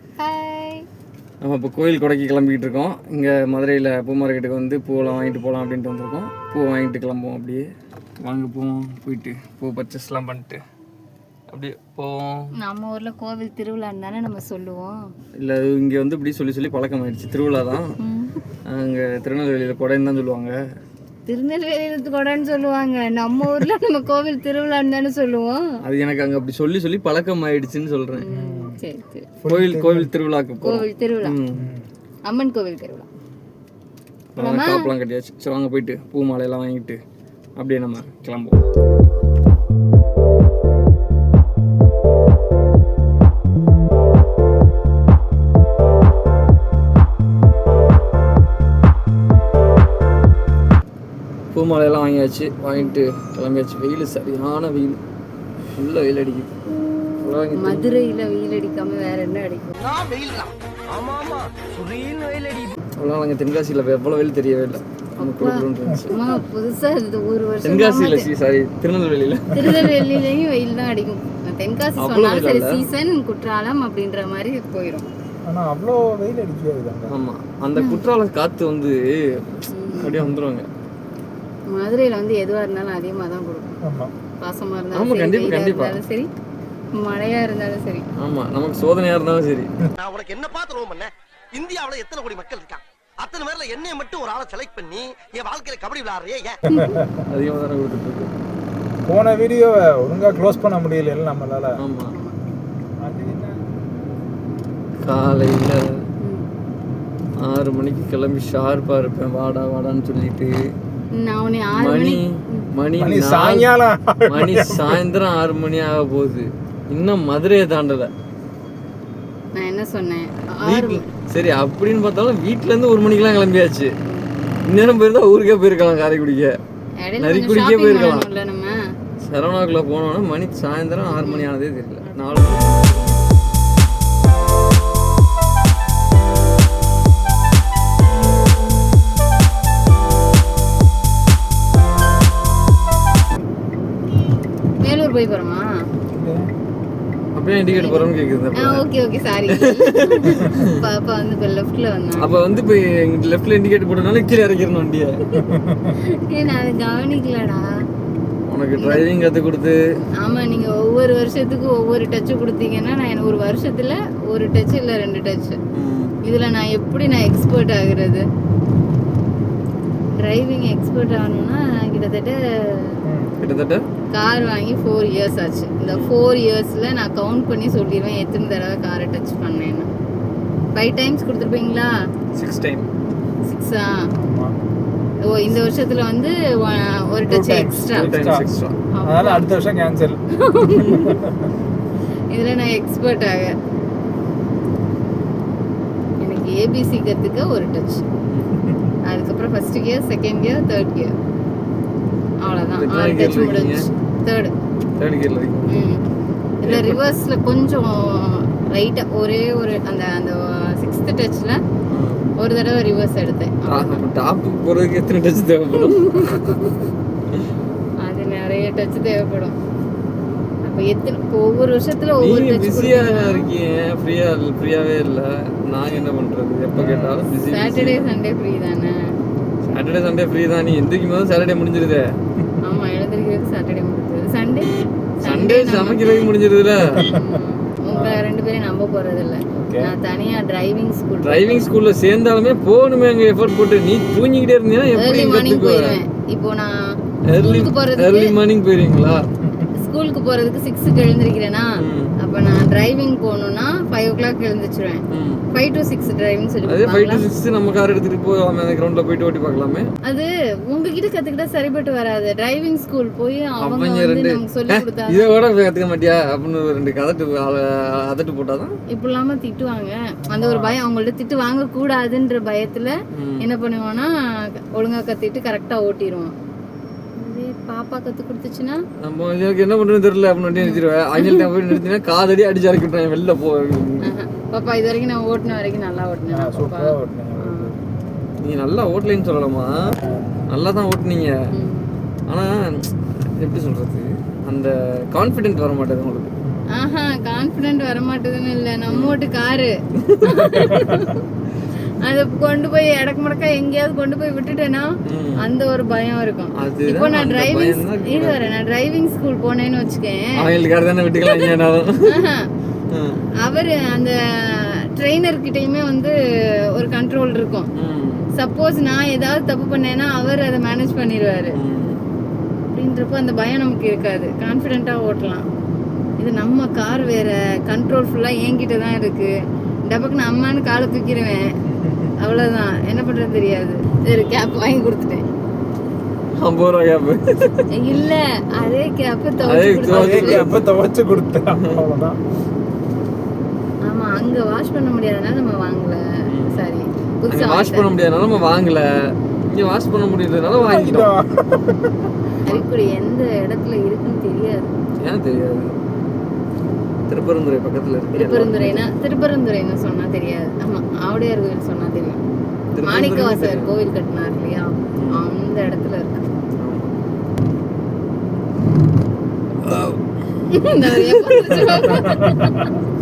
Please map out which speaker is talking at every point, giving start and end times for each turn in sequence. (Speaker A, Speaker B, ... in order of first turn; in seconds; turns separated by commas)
Speaker A: 0.2-0.9, Speaker B: 1.4-7.7, Speaker B: 8.2-10.6, Speaker B: 11.5-12.5, Speaker A: 12.6-15.1, Speaker B: 15.4-17.9, Speaker A: 18.0-18.4, Speaker B: 18.7-20.6, Speaker A: 21.3-25.7, Speaker B: 25.8-28.3, Speaker A: 28.2-29.3, Speaker C: 28.3-28.8, Speaker C: 29.4-30.1, Speaker B: 29.5-31.7, Speaker A: 30.6-31.4, Speaker C: 31.5-31.8, Speaker A: 32.3-33.1, Speaker B: 34.3-37.0, Speaker A: 34.4-34.9, Speaker B: 37.6-38.6, Speaker B: 51.5-55.0, Speaker B: 55.8-56.6, Speaker B: 57.2-57.9, Speaker A: 57.6-59.8, Speaker D: 59.8-62.7, Speaker B: 63.0-66.2, Speaker A: 65.2-68.3, Speaker B: 67.6-70.1, Speaker A: 69.5-75.1, Speaker B: 72.0-72.8, Speaker C: 75.5-77.2, Speaker B: 77.1-80.7, Speaker A: 77.8-78.0, Speaker A: 79.7-80.2, Speaker A: 81.7-83.8, Speaker C: 83.8-84.1, Speaker A: 84.4-86.3, Speaker B: 84.9-86.0, Speaker A: 87.0-88.1, Speaker B: 88.2-89.7, Speaker D: 90.0-96.6, Speaker C: 96.7-97.2, Speaker B: 97.3-98.3, Speaker C: 99.1-101.8, Speaker B: 101.8-102.2, Speaker A: 102.1-102.4, Speaker C: 103.0-103.6, Speaker B: 105.0-106.0, Speaker A: 106.2-106.5, Speaker B: 107.4-110.5, Speaker A: 111.1-112.7, Speaker B: 111.7-113.7, Speaker C: 113.0-115.0, Speaker B: 114.3-118.1, Speaker A: 119.5-121.0, Speaker B: 120.7-123.9, Speaker B: 124.7-126.5, Speaker A: 127.0-128.8, Speaker B: 127.2-128.3, Speaker B: 129.2-132.9, Speaker A: 131.2-131.5, Speaker A: 132.7-133.0, Speaker A: 144.8-145.7, Speaker C: 146.1-146.5, Speaker B: 147.3-148.9, Speaker A: 147.7-152.3, Speaker B: 149.5-150.7, Speaker B: 152.2-155.2, Speaker A: 155.3-157.7, Speaker C: 155.4-156.0, Speaker B: 158.5-159.8, Speaker A: 158.8-159.0, Speaker A: 160.2-165.6, Speaker B: 165.7-166.2, Speaker A: 166.2-168.2, Speaker A: 170.2-173.0, Speaker C: 173.1-173.3, Speaker B: 173.4-173.8, Speaker A: 174.1-179.9, Speaker B: 175.8-176.2, Speaker A: 180.8-181.9, Speaker B: 182.3-182.9, Speaker A: 183.5-184.1, Speaker C: 184.2-184.6, Speaker A: 185.3-188.1, Speaker C: 187.3-188.5, Speaker B: 187.9-188.8, Speaker A: 188.9-189.4, Speaker C: 189.0-190.2, Speaker A: 190.4-191.1, Speaker B: 190.7-191.0, Speaker C: 190.8-191.5, Speaker A: 192.3-193.5, Speaker A: 196.2-198.1, Speaker B: 198.3-198.6, Speaker C: 198.6-198.9, Speaker A: 199.1-201.1, Speaker A: 202.4-204.5, Speaker B: 202.8-203.9, Speaker B: 205.0-205.9, Speaker A: 205.7-206.1, Speaker A: 206.6-211.6, Speaker B: 206.6-207.0, Speaker B: 211.9-212.3, Speaker A: 212.4-214.0, Speaker B: 213.7-216.6, Speaker A: 215.9-216.8, Speaker A: 218.0-219.6, Speaker A: 220.7-223.5, Speaker B: 222.2-228.1, Speaker C: 226.7-227.2, Speaker A: 227.5-228.9, Speaker B: 229.7-232.0, Speaker A: 232.6-236.1, Speaker B: 235.2-237.0, Speaker C: 236.9-237.2, Speaker A: 237.1-241.7, Speaker C: 237.9-238.2, Speaker C: 239.5-239.9, Speaker B: 241.2-246.0, Speaker A: 245.0-248.3, Speaker B: 247.3-249.2, Speaker C: 249.4-249.7, Speaker A: 249.7-257.3, Speaker B: 251.8-252.1, Speaker B: 255.1-255.4, Speaker B: 256.6-259.9, Speaker A: 260.1-265.3, Speaker B: 263.6-268.7, Speaker A: 268.9-274.1, Speaker C: 270.2-270.8, Speaker B: 273.2-273.5, Speaker A: 274.7-276.3, Speaker A: 277.2-278.8, Speaker B: 279.0-284.1, Speaker A: 280.6-281.4, Speaker A: 284.0-287.7, Speaker C: 286.3-287.8, Speaker B: 288.4-290.0, Speaker C: 290.0-290.3, Speaker B: 290.5-291.4, Speaker A: 291.5-291.9, Speaker B: 292.3-296.3, Speaker C: 296.4-296.7, Speaker A: 296.7-301.2, Speaker B: 298.9-299.1, Speaker B: 300.0-300.5, Speaker A: 302.0-310.4, Speaker B: 305.1-305.4, Speaker B: 306.6-308.5, Speaker B: 310.4-312.2, Speaker A: 312.1-312.5, Speaker B: 312.9-313.2, Speaker A: 313.4-316.1, Speaker A: 316.7-317.7, Speaker B: 317.8-318.3, Speaker A: 318.3-321.6, Speaker B: 321.6-322.0, Speaker A: 322.7-325.4, Speaker A: 326.2-329.3, Speaker A: 329.9-331.5, Speaker C: 331.7-332.1, Speaker A: 332.2-335.2, Speaker B: 336.4-337.7, Speaker A: 337.7-340.6, Speaker B: 339.4-340.6, Speaker C: 339.9-342.2, Speaker B: 341.6-341.8, Speaker A: 343.9-347.9, Speaker B: 346.3-346.7, Speaker B: 347.3-351.1, Speaker C: 350.5-352.1, Speaker A: 352.4-354.7, Speaker B: 355.0-355.8, Speaker B: 357.1-358.9, Speaker A: 358.1-362.2, Speaker B: 362.7-363.7, Speaker A: 362.9-366.2, Speaker B: 365.0-365.2, Speaker B: 366.6-366.9, Speaker B: 369.6-372.1, Speaker A: 370.5-372.8, Speaker C: 371.6-372.6